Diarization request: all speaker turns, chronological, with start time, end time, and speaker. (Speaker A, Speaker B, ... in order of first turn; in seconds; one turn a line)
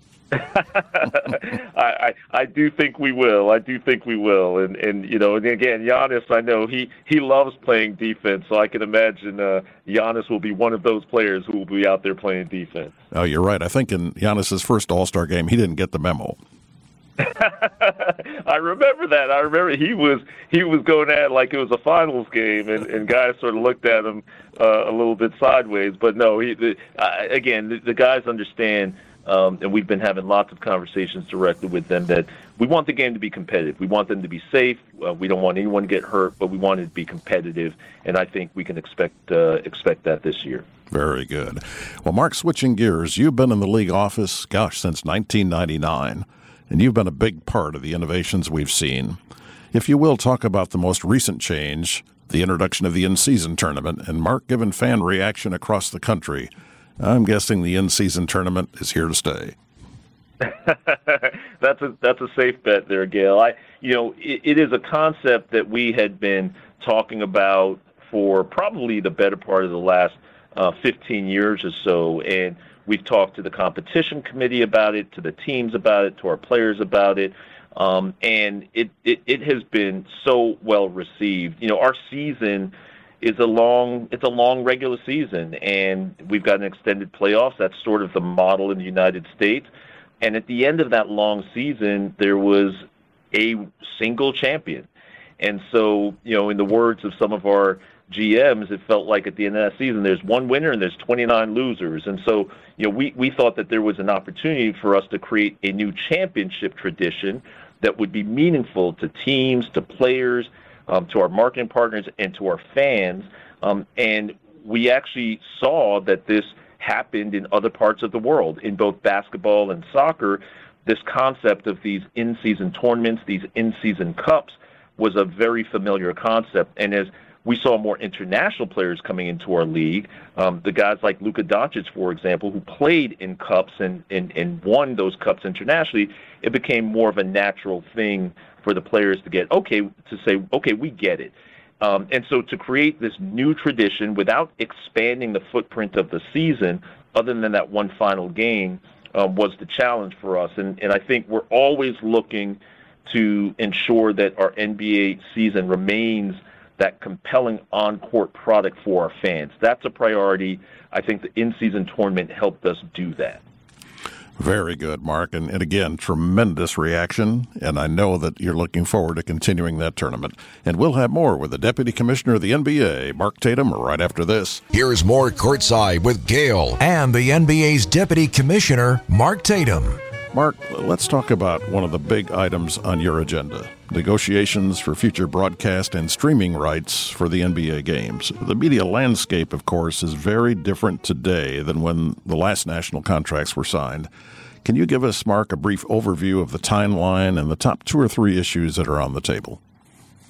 Speaker A: 0.3-12.9
Speaker B: 13.1-16.4
Speaker A: 17.2-40.6
Speaker B: 40.9-49.2
Speaker B: 49.7-59.5
Speaker A: 60.4-89.7
Speaker A: 90.2-94.9
Speaker A: 95.4-163.4
Speaker B: 164.4-174.6
Speaker C: 174.7-180.0
Speaker B: 180.3-194.1
Speaker B: 194.6-199.6